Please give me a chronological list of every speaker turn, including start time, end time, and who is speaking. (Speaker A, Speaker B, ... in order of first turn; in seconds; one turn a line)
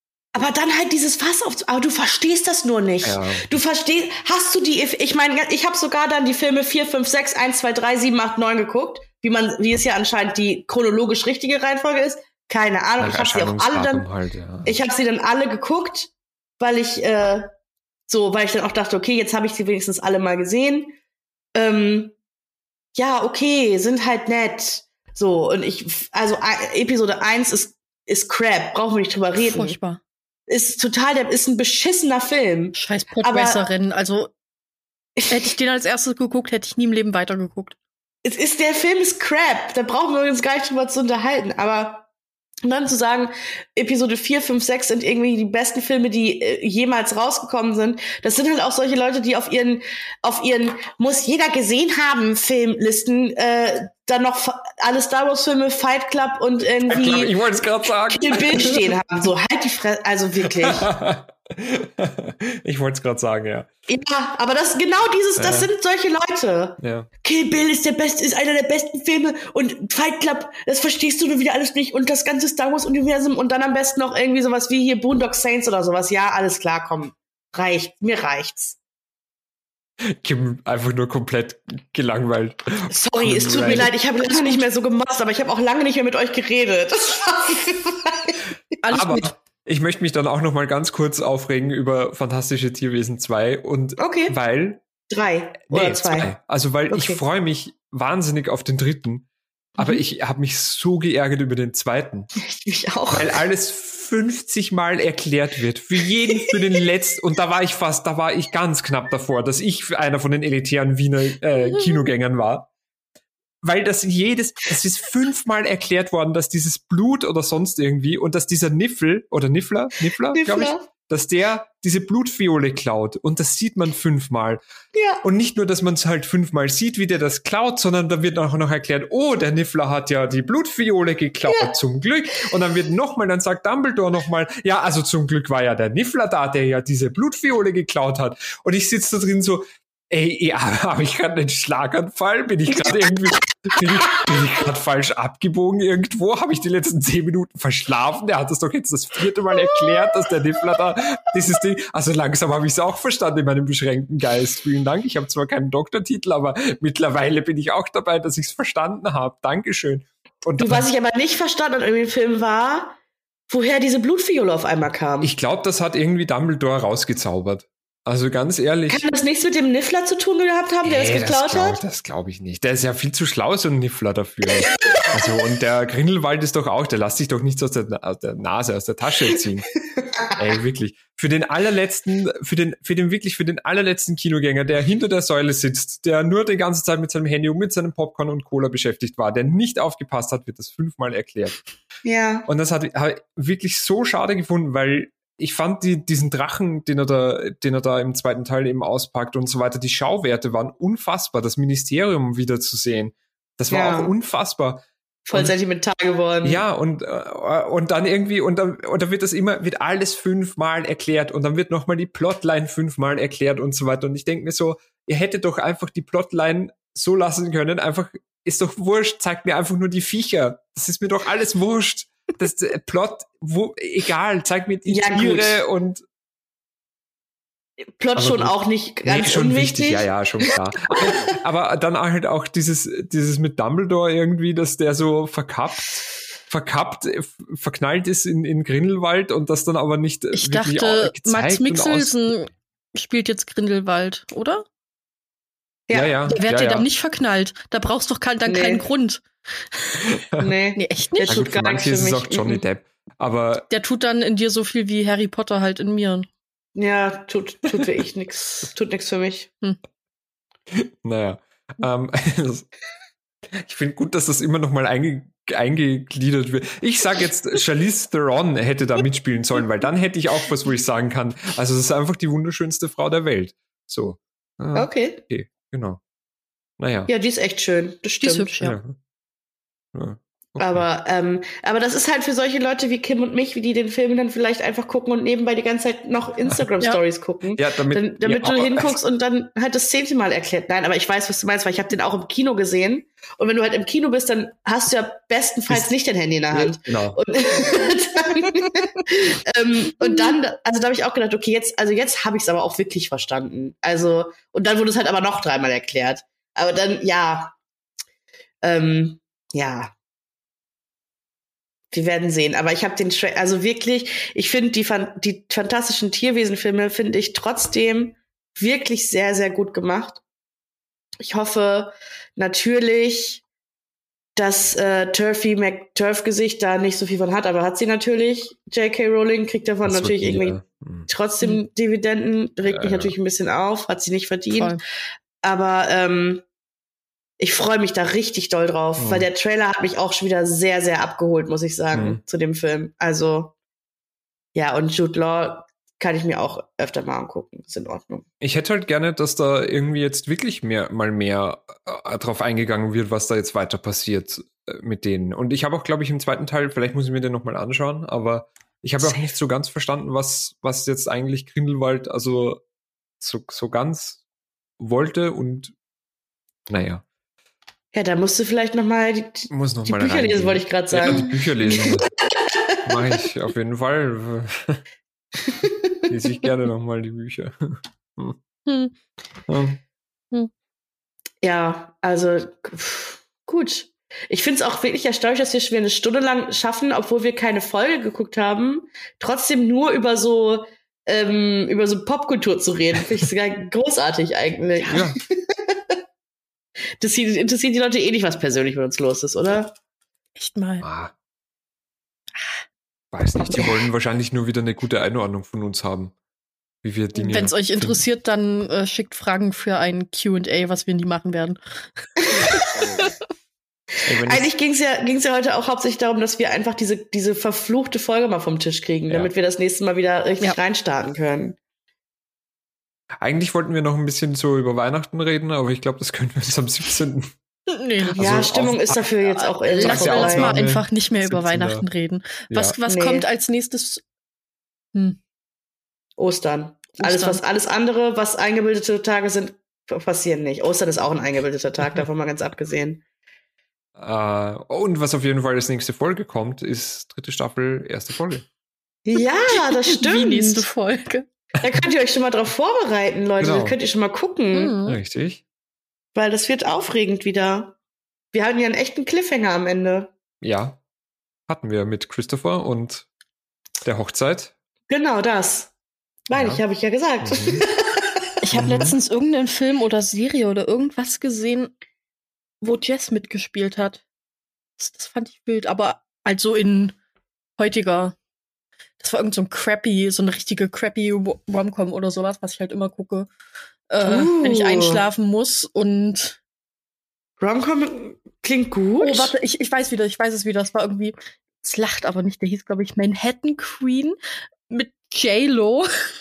Speaker A: 0.3-14.0
Speaker B: 3.0-3.6
Speaker B: 13.0-14.8
Speaker A: 14.6-17.5
Speaker A: 18.1-20.9
Speaker A: 21.5-22.1
Speaker A: 22.9-29.8
Speaker C: 29.4-30.0
Speaker A: 30.5-33.6
Speaker C: 32.7-34.3
Speaker C: 35.3-37.8
Speaker A: 38.2-42.0
Speaker A: 42.6-57.4
Speaker B: 56.9-58.9
Speaker A: 58.1-60.9
Speaker B: 60.4-63.7
Speaker A: 63.9-78.8
Speaker B: 65.4-65.7
Speaker B: 66.8-67.1
Speaker B: 80.1-83.9
Speaker A: 82.9-88.4
Speaker C: 88.8-89.3
Speaker B: 88.9-94.8
Speaker A: 94.0-94.4
Speaker A: 95.1-96.3
Speaker B: 95.7-99.3
Speaker A: 96.9-97.2
Speaker B: 99.8-102.3
Speaker A: 102.4-103.4
Speaker B: 103.1-112.7
Speaker B: 113.6-124.6
Speaker A: 120.3-120.8
Speaker A: 124.9-125.2
Speaker B: 125.2-160.9
Speaker A: 160.6-163.0
Speaker A: 163.5-165.3
Speaker B: 165.2-169.1
Speaker A: 168.9-171.8
Speaker B: 170.8-179.7
Speaker A: 174.7-175.1
Speaker B: 180.3-191.6
Speaker A: 192.0-192.5
Speaker B: 192.5-205.5
Speaker A: 203.7-204.1
Speaker A: 205.3-206.6
Speaker B: 206.4-226.0
Speaker A: 224.9-225.6
Speaker A: 227.9-230.4
Speaker B: 228.1-242.2
Speaker A: 231.0-231.3
Speaker C: 240.3-244.7
Speaker A: 245.9-246.2
Speaker B: 245.9-246.9
Speaker C: 246.3-250.0
Speaker A: 248.5-248.8
Speaker A: 250.4-252.6
Speaker C: 250.8-251.4
Speaker B: 251.3-253.7
Speaker C: 253.7-256.3
Speaker A: 256.7-259.5
Speaker B: 260.7-262.7
Speaker B: 263.5-276.0
Speaker A: 274.7-275.2
Speaker B: 276.8-277.1
Speaker A: 277.1-278.5
Speaker C: 278.2-278.8
Speaker B: 278.6-278.9
Speaker B: 279.9-280.9
Speaker A: 280.6-307.6
Speaker B: 287.5-288.9
Speaker B: 296.5-297.2
Speaker A: 308.6-309.9
Speaker A: 311.9-320.2
Speaker A: 321.2-323.4
Speaker A: 324.4-334.8
Speaker B: 329.9-331.1
Speaker B: 332.6-333.1
Speaker C: 334.5-334.8
Speaker A: 335.4-336.4
Speaker A: 337.4-343.5
Speaker B: 339.0-339.3
Speaker B: 341.9-342.2
Speaker A: 344.5-348.2
Speaker B: 348.4-362.6
Speaker A: 359.0-359.3
Speaker B: 363.2-364.2
Speaker B: 364.8-365.7
Speaker B: 366.7-367.0
Speaker A: 367.9-372.8
Speaker B: 369.5-372.1
Speaker C: 371.1-371.3
Speaker B: 372.9-374.8
Speaker B: 376.1-378.4
Speaker C: 378.6-378.9
Speaker B: 379.5-379.8
Speaker A: 381.4-395.7
Speaker B: 394.9-395.2
Speaker A: 397.0-399.7
Speaker C: 400.4-400.9
Speaker B: 400.8-401.1
Speaker C: 402.4-402.6
Speaker B: 403.1-406.1
Speaker A: 403.4-403.7
Speaker B: 406.8-408.0
Speaker C: 407.1-413.1
Speaker B: 414.1-414.5
Speaker A: 414.3-421.6
Speaker B: 423.2-427.3
Speaker C: 427.7-428.2
Speaker A: 428.1-430.6
Speaker B: 428.2-429.0
Speaker C: 429.4-434.0
Speaker B: 429.8-431.8
Speaker B: 432.5-432.8
Speaker A: 432.9-433.2
Speaker C: 434.9-435.2
Speaker A: 436.2-443.0
Speaker C: 437.0-437.4
Speaker B: 444.0-448.5
Speaker A: 449.1-450.6
Speaker C: 449.2-451.3
Speaker A: 451.6-454.7
Speaker B: 453.4-453.8
Speaker C: 454.5-455.0
Speaker B: 454.8-455.4
Speaker A: 456.1-457.7
Speaker A: 458.3-460.1
Speaker B: 460.4-460.8
Speaker B: 461.5-463.1
Speaker B: 463.8-464.5
Speaker A: 464.9-465.7
Speaker A: 466.3-468.9
Speaker B: 466.3-466.6
Speaker B: 467.2-467.6
Speaker C: 468.4-471.7
Speaker B: 468.5-468.9
Speaker C: 472.6-474.0
Speaker C: 474.8-476.9
Speaker C: 477.6-478.1
Speaker C: 479.0-483.3
Speaker C: 483.9-486.4
Speaker A: 484.0-485.0
Speaker A: 487.4-489.3
Speaker C: 489.0-494.1
Speaker C: 494.7-495.9